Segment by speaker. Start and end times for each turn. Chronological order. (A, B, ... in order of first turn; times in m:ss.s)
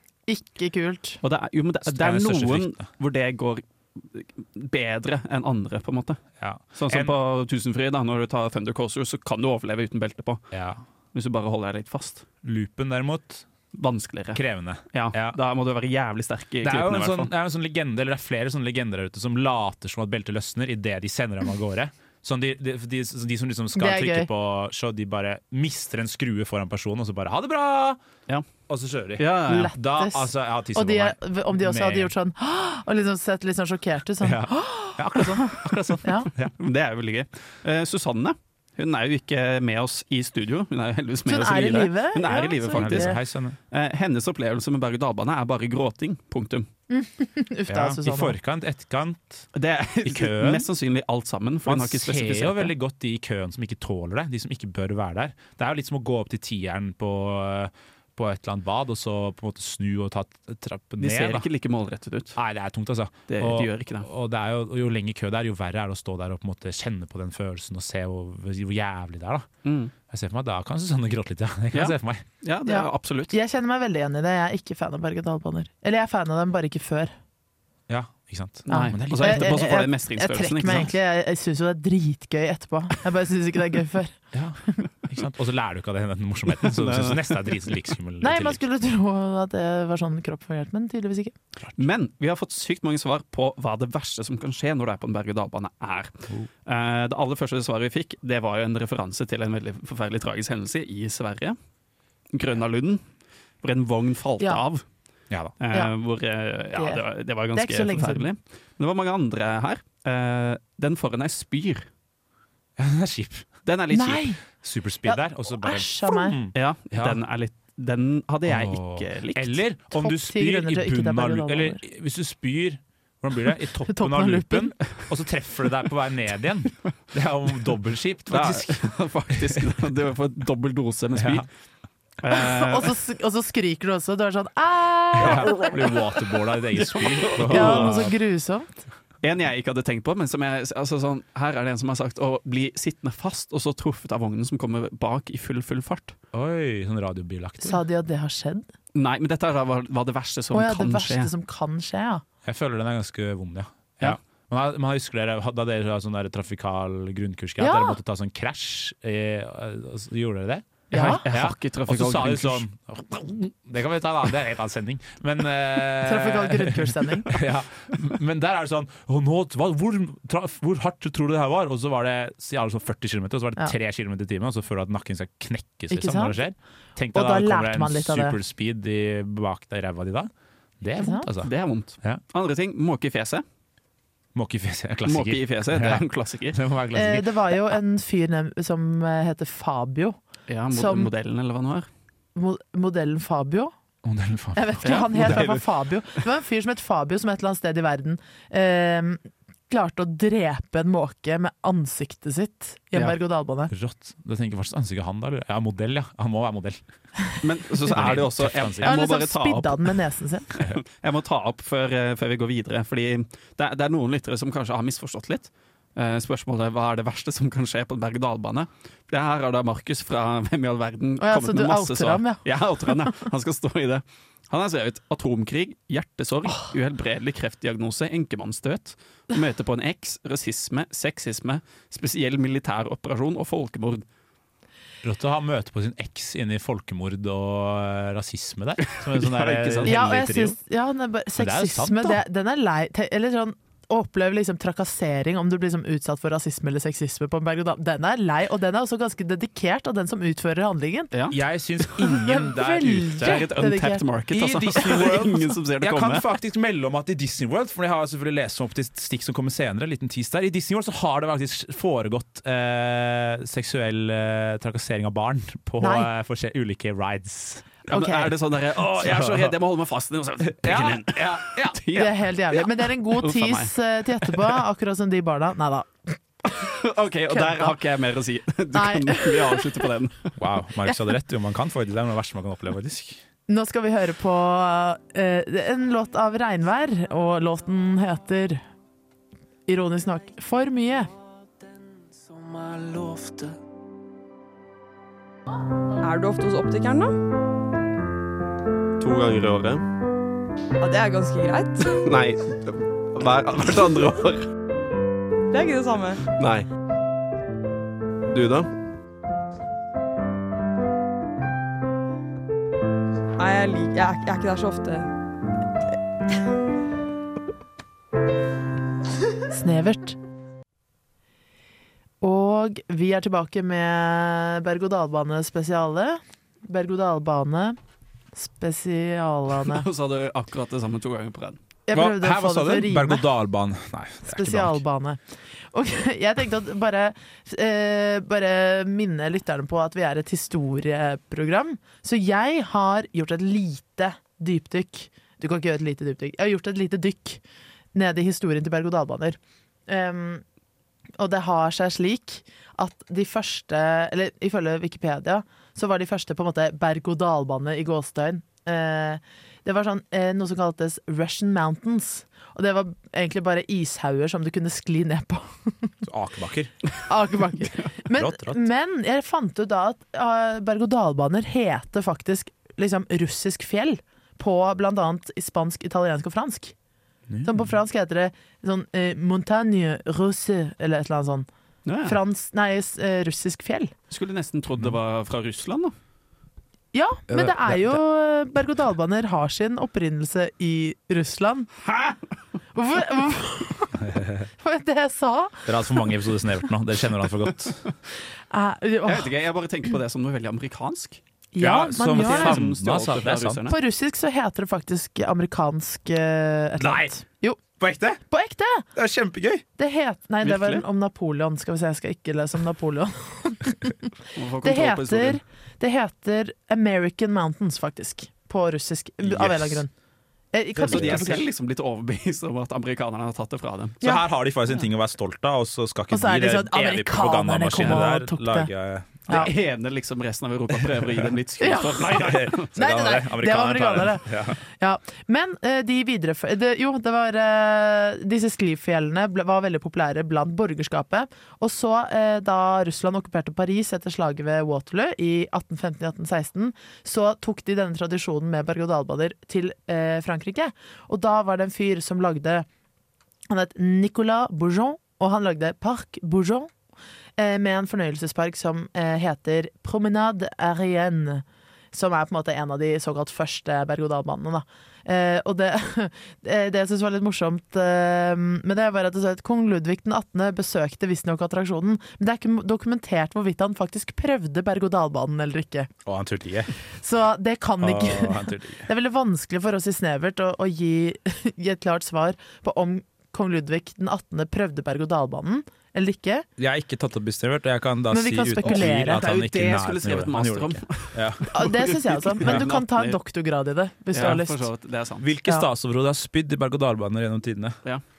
0:00.3-0:01.2 A
0:01.2-0:06.2 B
0:01.9-0:02.9 C
0:06.4-0:07.1 C
0:06.7-0:10.5 B
0:10.5-0:10.8 C
0:11.1-0:12.3 B
0:12.4-0:13.5 C
0:13.7-0:17.3 B
0:14.4-0:15.4 C
0:16.6-0:28.0 C
0:23.8-0:24.3 A
0:28.7-0:32.1 C
0:29.2-0:29.7 B
0:29.5-0:36.3 A
0:34.2-0:36.5 C
0:36.6-0:43.2 B
0:41.3-0:43.2 A
0:42.7-0:43.6 C
0:43.7-0:46.7 B
0:46.9-0:48.4 A
0:47.7-0:49.5 C
0:49.6-0:52.7 B
0:50.0-0:50.7 C
0:51.7-1:01.5 C
1:01.0-1:02.4 B
1:02.4-1:09.5 C
1:03.3-1:04.1 B
1:09.6-1:09.9 B
1:10.1-1:12.2 C
1:11.7-1:13.4 B
1:12.7-1:17.1 A
1:17.9-1:19.6 C
1:18.7-1:20.9 B
1:18.7-1:24.2 A
1:24.3-1:28.6 C
1:26.6-1:27.8 B
1:28.2-1:31.4 A
1:31.6-1:31.9 C
1:31.8-1:36.1 B
1:36.7-1:41.6 B
1:42.3-1:43.0 B
1:43.6-1:44.8 B
1:45.6-1:51.9 B
1:46.8-1:47.0 A
1:47.5-1:48.3 A
1:52.8-1:53.5 C
1:53.6-1:54.3 B
1:53.9-1:54.4 A
1:54.6-1:57.2 C
1:55.1-1:56.4 A
1:56.6-1:59.6 B
1:58.5-2:08.9 C
2:00.0-2:01.8 A
2:03.9-2:04.7 A
2:08.3-2:11.5 B
2:11.1-2:11.5 C
2:12.2-2:12.9 B
2:12.3-2:15.7 A
2:15.2-2:18.1 C
2:15.2-2:15.8 B
2:16.9-2:18.0 B
2:17.5-2:18.7 A
2:19.2-2:26.2 B
2:26.3-2:27.8 C
2:27.6-2:28.7 A
2:29.0-2:31.3 B
2:30.5-2:32.2 A
2:32.4-3:02.2 C
2:37.6-2:38.0 A
2:40.9-2:41.2 A
2:40.9-2:42.6 B
2:46.0-2:47.3 A
2:55.9-2:56.4 A
2:57.1-2:58.4 A
3:01.0-3:01.3 A
3:01.4-3:03.4 B
3:04.4-3:07.6 C
3:05.1-3:06.6 B
3:07.0-3:10.2 A
3:10.5-3:11.9 B
3:10.7-3:11.1 A
3:12.4-3:13.7 A
3:14.0-3:15.5 C
3:14.6-3:23.7 A
3:14.8-3:15.6 B
3:23.7-3:26.8 C
3:27.4-3:30.0 B
3:27.9-3:29.0 C
3:28.8-3:30.5 A
3:30.6-3:54.0 B
3:41.2-3:42.4 A
3:55.0-4:00.6 C
3:59.0-4:00.0 B
3:59.9-4:11.1 A
4:01.4-4:02.2 C
4:11.1-4:11.4 B
4:11.3-4:13.5 C
4:12.1-4:14.0 A
4:13.2-4:16.2 B
4:14.3-4:27.8 C
4:25.8-4:26.1 A
4:27.9-4:28.3 A
4:27.9-4:34.6 B
4:28.8-4:29.5 C
4:30.6-4:31.8 C
4:32.0-4:36.2 A
4:36.6-4:40.3 B
4:37.3-4:37.8 A
4:38.8-4:39.7 A
4:40.4-4:43.2 C
4:43.5-4:48.6 A
4:49.7-4:51.1 A
4:56.0-4:57.1 D
4:59.0-4:59.8 E
5:00.8-5:02.0 D
5:02.0-5:04.4 E
5:05.5-5:06.2 D
5:06.3-5:06.7 E
5:08.3-5:08.7 E
5:13.4-5:15.1 D
5:19.5-5:20.2 A
5:22.2-5:27.8 A
5:28.3-5:29.8 A
5:29.6-5:31.6 B
5:31.9-5:33.3 A
5:31.9-5:34.8 C
5:34.2-5:35.2 A
5:35.7-5:47.4 A
5:47.9-5:50.4 A
5:51.2-6:05.9 A
6:06.0-6:06.8 C
6:07.1-6:16.8 A
6:08.1-6:08.6 C
6:17.3-6:17.7 C
6:17.4-6:21.5 A
6:21.9-6:22.2 B
6:22.0-6:23.9 A
6:24.1-6:25.9 B
6:26.9-6:31.7 A
6:27.3-6:28.0 C
6:31.9-6:32.2 B
6:32.8-6:34.0 A
6:34.0-6:34.5 C
6:34.6-6:36.0 A
6:35.7-6:37.8 C
6:38.5-6:39.3 A
6:39.0-6:41.2 B
6:41.5-6:42.6 A
6:41.6-6:43.6 C
6:42.1-6:43.8 B
6:43.7-6:47.6 A
6:46.8-6:47.2 C
6:47.8-6:48.2 C
6:48.3-6:48.9 A
6:49.0-6:49.6 C
6:49.8-6:54.1 A
6:50.4-6:50.8 B
6:54.4-6:55.4 B
6:54.6-6:59.9 A
6:59.2-6:59.8 C
7:00.5-7:01.4 A
7:00.8-7:01.4 C
7:00.8-7:04.0 B
7:04.0-7:09.5 C
7:06.1-7:08.7 A
7:09.3-7:12.7 B
7:11.6-7:32.7 A
7:12.1-7:14.6 C
7:33.5-7:36.7 A
7:37.4-7:55.9 A
7:56.0-7:56.7 C
7:57.0-8:06.5 A
7:57.8-7:58.9 C
8:06.6-8:11.5 C
8:08.1-8:09.4 A
8:08.6-8:13.2 B
8:11.5-8:14.7 A
8:14.1-8:15.3 B
8:15.2-8:17.8 C